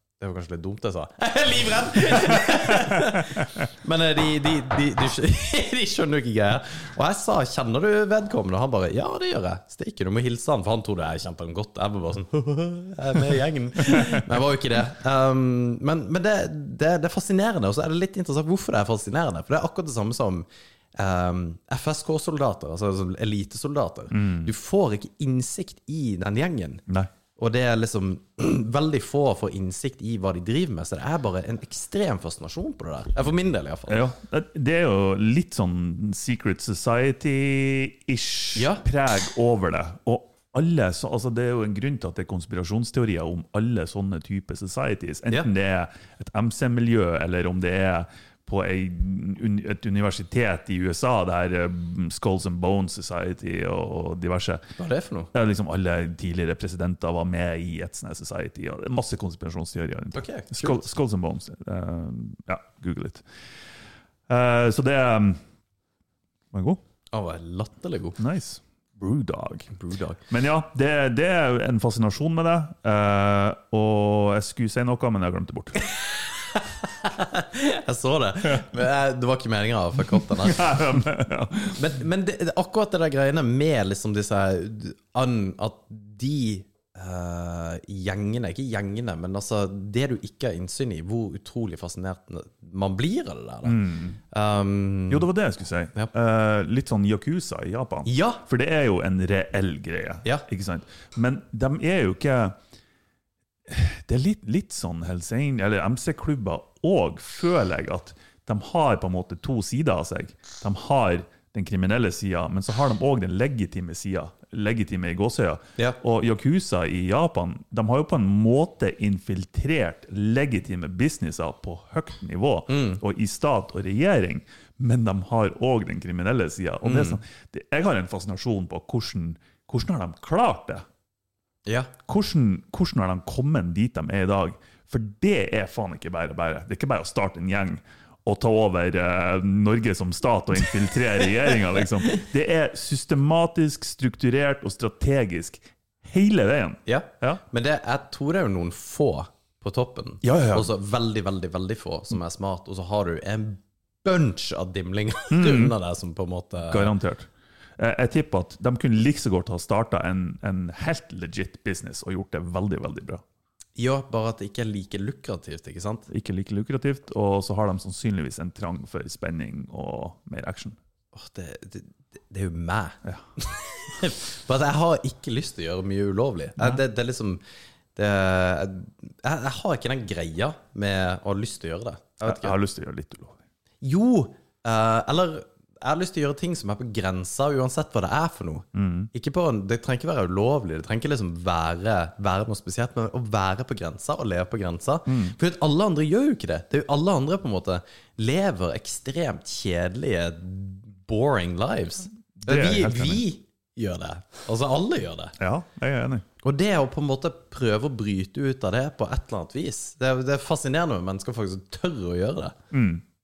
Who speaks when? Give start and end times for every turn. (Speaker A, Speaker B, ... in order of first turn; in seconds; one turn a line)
Speaker A: 0.2-26.8
Speaker B: 2.1-3.6
Speaker B: 13.9-14.2
Speaker B: 24.1-24.5
Speaker A: 27.4-34.0
Speaker B: 33.9-54.6
Speaker A: 38.5-38.8
Speaker A: 54.8-55.3
Speaker B: 55.3-63.2
Speaker A: 60.1-60.9
Speaker B: 64.3-65.4
Speaker B: 66.5-66.8
Speaker A: 67.1-68.2
Speaker B: 68.2-69.7
Speaker A: 69.7-70.2
Speaker B: 70.3-75.8
Speaker A: 75.8-80.9
Speaker B: 80.3-81.8
Speaker A: 81.8-95.3
Speaker B: 93.6-94.2
Speaker B: 95.1-102.6
Speaker A: 98.0-98.4
Speaker B: 103.7-130.8
Speaker A: 122.7-123.0
Speaker A: 126.8-127.2
Speaker A: 131.7-131.9
Speaker B: 132.1-147.4
Speaker A: 146.8-156.9
Speaker B: 150.2-150.7
Speaker B: 155.3-155.8
Speaker B: 156.7-163.2
Speaker A: 163.8-166.1
Speaker B: 166.1-170.8
Speaker A: 171.1-177.4
Speaker A: 177.9-182.6
Speaker B: 182.2-183.4
Speaker A: 183.8-205.3
Speaker B: 188.7-189.1
Speaker B: 195.1-195.3
Speaker B: 202.4-203.2
Speaker B: 205.4-206.2
Speaker A: 206.4-212.6
Speaker B: 212.7-213.0